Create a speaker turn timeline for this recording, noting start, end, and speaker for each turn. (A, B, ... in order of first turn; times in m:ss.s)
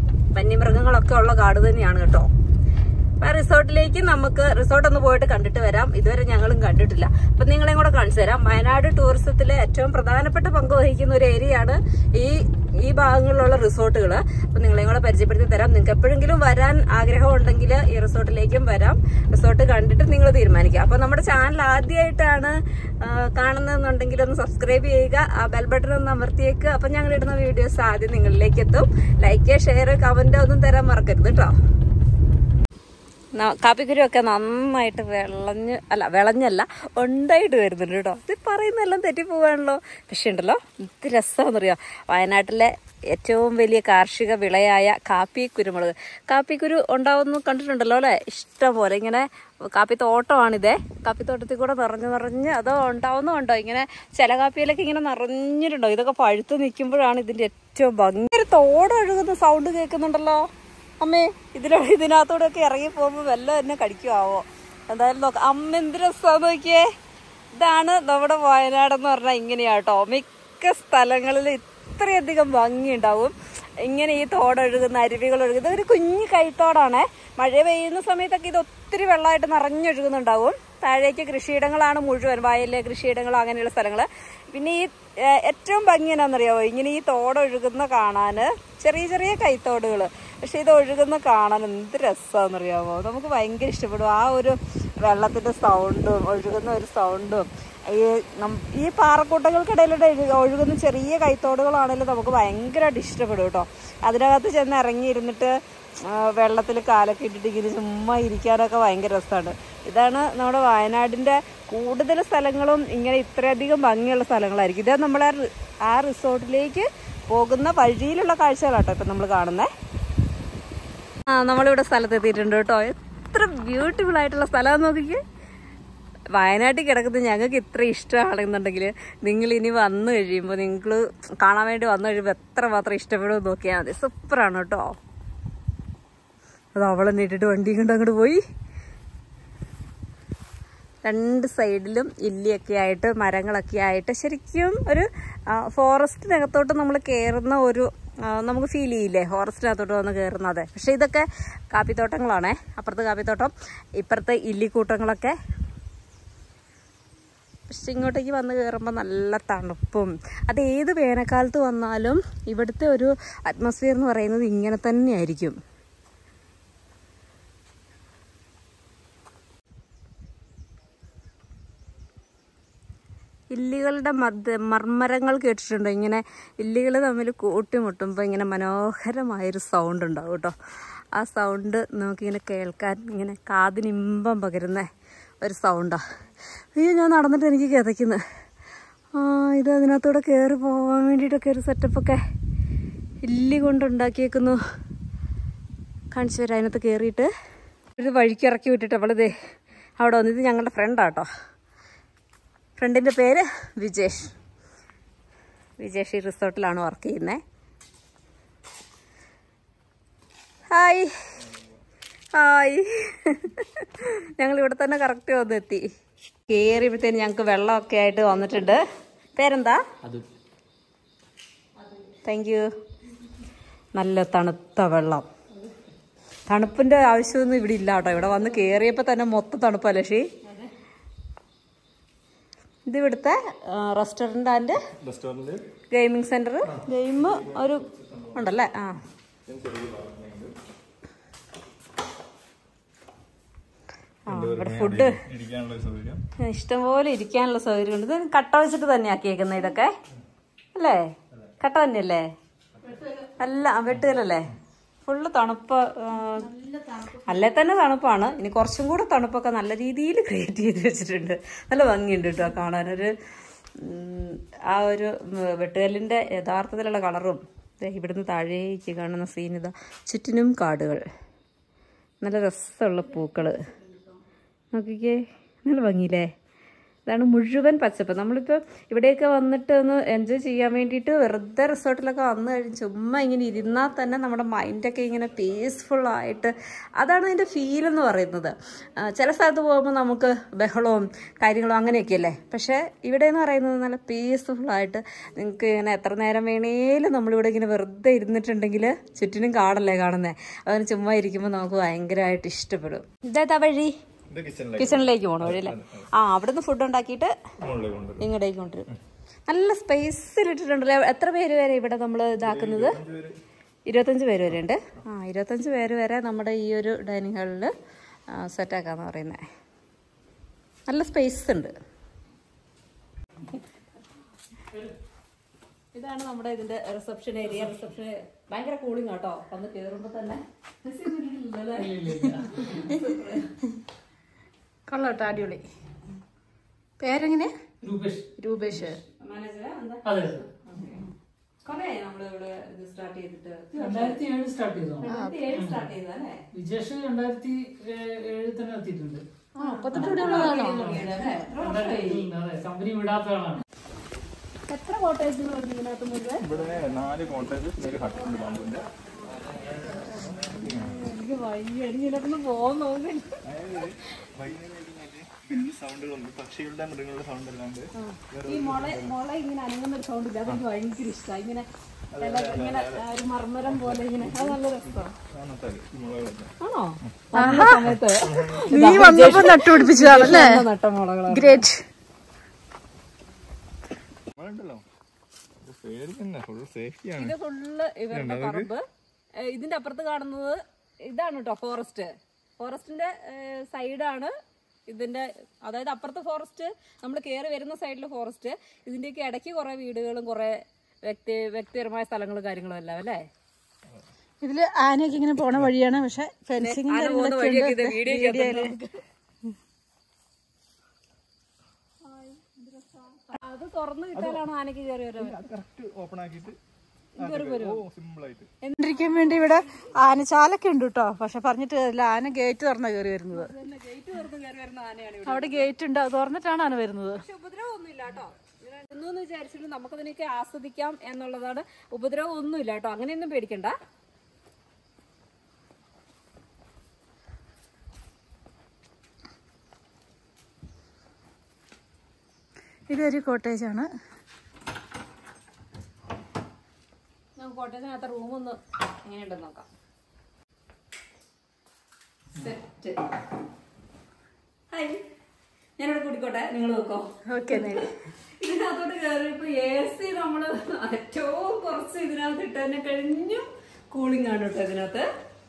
0:00.3-0:02.3 A
0:03.2-0:31.5 A
0:33.3-1:00.5 A
1:01.0-1:06.9 A
1:07.5-1:59.7 A
2:01.3-2:05.2 A
2:06.3-2:15.0 A
2:16.8-2:18.4 A
2:21.0-2:35.4 A
2:37.7-2:45.6 A
2:53.5-3:00.5 A
3:01.1-3:04.9 A
3:05.4-3:06.0 A
3:06.7-3:08.2 A
3:09.1-3:12.2 A
3:13.2-3:14.6 A
3:16.1-3:17.3 A
3:18.0-3:19.3 A
3:20.0-3:21.3 A
3:22.8-3:24.3 A
3:25.8-3:27.4 A
3:30.7-3:31.1 A
3:31.4-3:31.8 B
3:32.3-3:35.8 A
3:36.5-3:38.8 A
3:39.4-3:39.8 A
3:41.8-3:42.2 C
3:42.2-3:42.6 A
3:44.0-3:45.3 A
3:46.5-3:50.3 A
3:52.9-3:54.8 A
3:55.0-3:55.7 B
3:55.9-3:59.0 A
3:56.6-3:58.5 B
3:59.4-4:00.6 B
4:04.3-4:06.2 B
4:04.3-4:05.2 A
4:06.4-4:09.9 A
4:10.7-4:12.3 A
4:12.8-4:13.3 C
4:13.4-4:14.5 A
4:15.0-4:16.5 A
4:16.1-4:17.7 C
4:17.3-4:23.1 A
4:23.8-4:31.0 A
4:32.2-4:33.6 A
4:33.0-4:34.2 C
4:34.7-4:36.3 A
4:37.1-5:03.9 A
5:04.3-5:06.1 B
5:04.8-5:07.3 A
5:07.6-5:08.3 B
5:08.2-5:08.9 A
5:09.5-5:13.0 A
5:12.4-5:13.4 B
5:13.9-5:17.7 A
5:18.3-5:19.4 A
5:20.9-5:21.7 A
5:24.7-5:25.0 D
5:25.9-5:33.6 A
5:31.8-5:32.9 D
5:34.9-5:35.6 C
5:37.0-5:37.5 C
5:37.8-5:38.9 D
5:38.4-5:39.0 C
5:39.0-5:41.0 A
5:40.0-5:40.4 D
5:41.6-5:44.2 A
5:43.8-5:45.9 D
5:45.0-5:46.4 A
5:45.0-5:45.4 C
5:46.5-5:49.2 D
5:49.6-5:51.4 C
5:49.6-5:52.3 A
5:49.9-5:53.6 D
5:54.7-5:56.4 A
5:56.4-6:01.0 B
6:00.6-6:03.4 A
6:03.4-6:09.1 B
6:07.9-6:11.7 A
6:12.1-6:13.0 B
6:12.2-6:15.1 A
6:13.7-6:19.5 B
6:16.6-6:21.6 A
6:17.3-6:17.9 C
6:18.6-6:20.6 C
6:21.3-6:21.8 C
6:24.3-6:24.8 B
6:25.6-6:27.4 B
6:27.2-6:28.8 A
6:28.1-6:28.7 B
6:29.4-6:34.3 A
6:34.9-6:43.3 A
6:44.4-6:48.7 C
6:46.6-6:48.9 A
6:52.0-6:55.4 A
6:54.1-6:54.4 B
6:55.2-6:56.6 B
6:57.2-6:57.8 A
6:57.2-6:58.5 B
6:58.6-6:59.6 A
6:58.8-7:03.5 C
7:03.3-7:05.7 A
7:05.2-7:07.2 C
7:07.2-7:13.7 A
7:22.9-7:23.9 C
7:27.4-7:29.7 A
7:32.4-7:33.1 A
7:34.7-7:35.0 A
7:35.8-7:37.9 A
7:37.3-7:37.9 C
7:38.4-7:45.1 A